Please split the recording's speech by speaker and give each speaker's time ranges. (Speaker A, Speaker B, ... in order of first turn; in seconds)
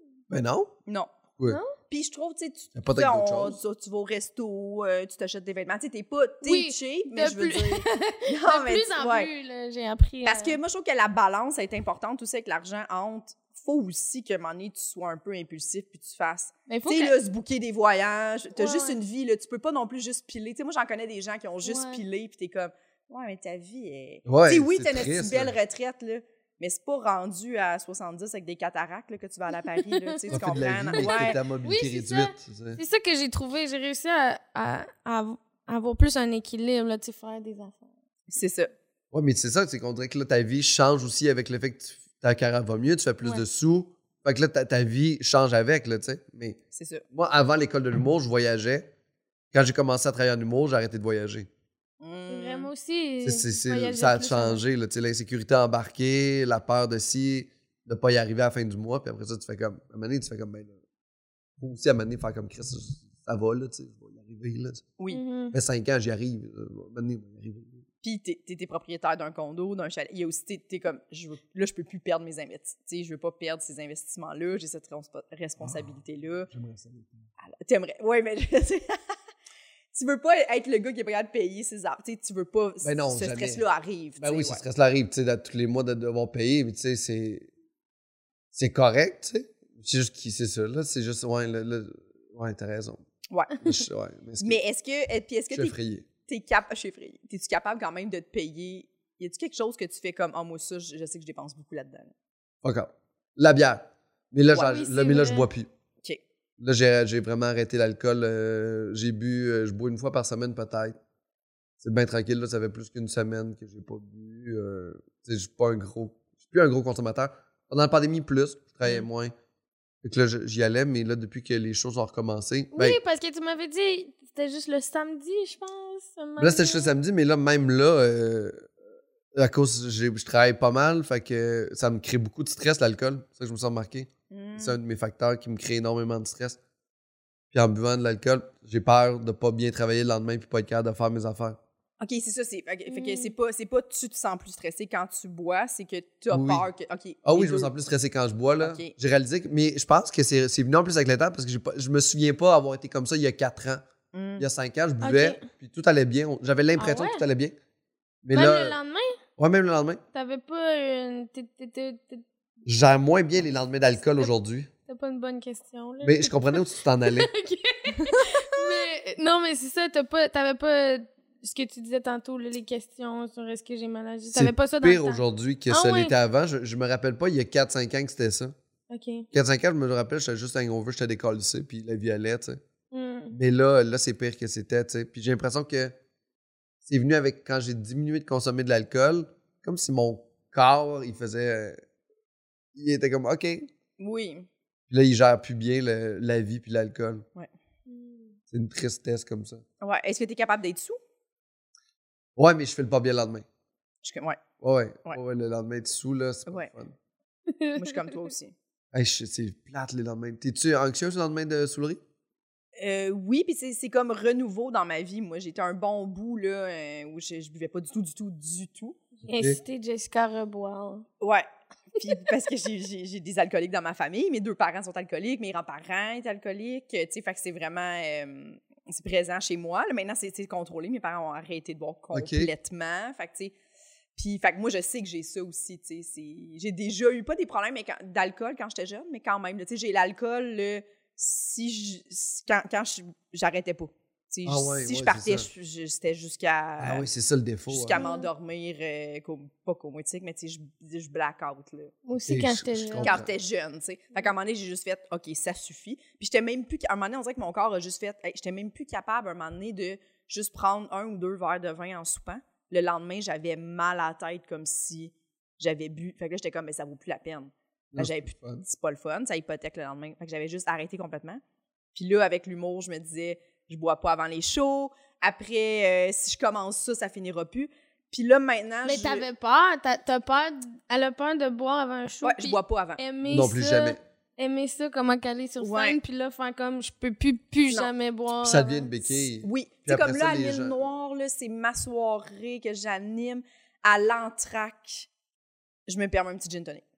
Speaker A: 0.3-0.7, 2.7-3.6, 24.2-25.6, 30.3-32.8, 39.1-46.6, 47.1-48.9, 49.5-51.5, 53.2-60.8, 61.6-64.9, 65.5-67.8, 75.6-76.0, 76.5-77.3, 82.8-83.7, 84.2-87.5, 88.5-93.0, 93.6-94.6, 95.5-96.1, 102.6-105.7, 106.6-111.0, 111.8-119.3, 120.0-123.0, 126.4-128.7, 129.3-136.6, 137.5-141.6, 146.3-146.7, 147.2-153.8, 154.4-157.5, 158.2-158.8, 159.4-160.0, 162.6-164.7, 166.0-167.3, 174.3-178.5, 179.3-182.6, 183.3-185.9, 186.8-191.8, 192.7-193.7, 194.9-197.2, 198.5-199.6, 202.4-203.4, 204.6-206.9, 208.9-212.0, 232.1-232.5, 244.4-245.5, 246.8-248.0, 252.2-253.3, 267.9-268.6, 283.2-284.0, 288.4-290.9
Speaker B: 1.4-1.7, 6.4-10.6, 16.7-17.1, 18.6-19.0, 21.6-22.0, 29.9-37.9, 52.3-54.6, 65.1-65.5, 104.5-105.5, 122.7-126.9, 142.9-143.3, 155.0-155.5, 156.8-157.2, 158.3-159.2, 160.1-162.2, 164.9-176.1, 178.9-179.2, 182.9-183.3, 197.9-198.3, 207.5-208.2, 219.2-221.0, 247.9-248.3, 252.1-253.2, 278.8-288.9
Speaker C: 1.8-9.3, 10.2-31.4, 38.3-38.7, 46.7-47.0, 52.0-52.7, 65.0-65.2, 68.0-76.5, 77.4-79.0, 79.9-84.6, 93.3-93.6, 94.4-95.7, 96.2-102.1, 134.3-134.8, 142.0-147.7, 148.6-148.9, 154.1-154.4, 194.0-194.5, 199.8-201.0, 204.0-204.4, 207.7-208.5, 212.8-219.0, 221.2-233.5, 234.2-247.1, 247.7-252.0, 253.0-271.4, 271.9-279.2, 282.2-283.0, 285.6-286.0, 289.4-295.1, 295.9-296.8